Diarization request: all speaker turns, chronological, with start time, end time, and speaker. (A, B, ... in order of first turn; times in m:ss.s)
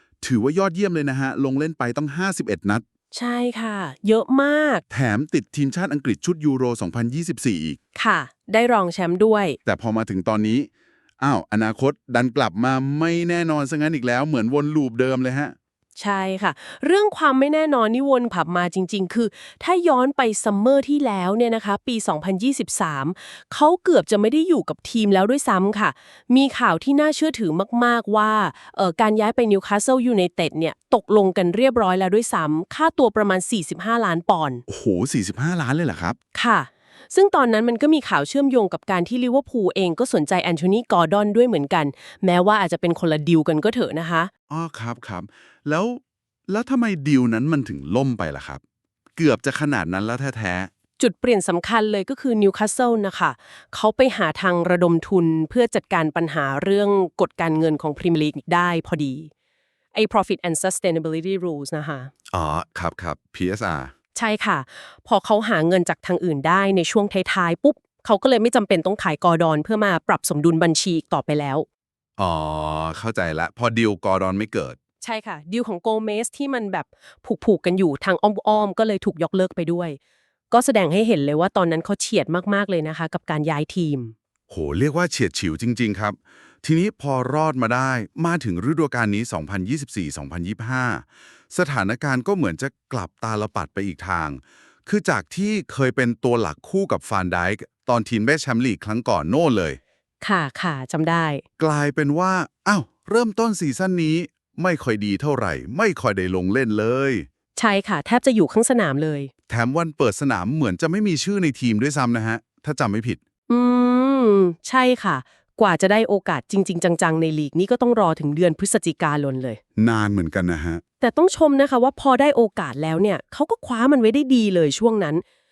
0:00.2-0:02.8 A
0:03.1-0:04.8 B
0:04.9-0:07.8 A
0:08.0-0:09.6 B
0:09.6-0:10.7 A
0:11.2-0:15.6 A
0:16.0-0:34.6 B
0:34.7-0:36.2 A
0:36.4-0:44.3 B
0:44.5-0:48.6 A
0:49.2-0:50.7 A
0:51.0-0:59.3 B
0:59.9-1:02.1 B
1:02.3-1:03.9 A
1:04.2-1:11.7 B
1:12.2-1:14.8 A
1:15.0-1:20.0 B
1:20.5-1:24.1 B
1:24.5-1:39.8 A
1:40.2-1:41.4 B
1:41.6-1:47.3 A
1:47.6-1:49.3 B
1:49.5-1:53.2 A
1:53.5-1:59.6 B
1:59.8-2:00.8 A
2:01.0-2:05.2 B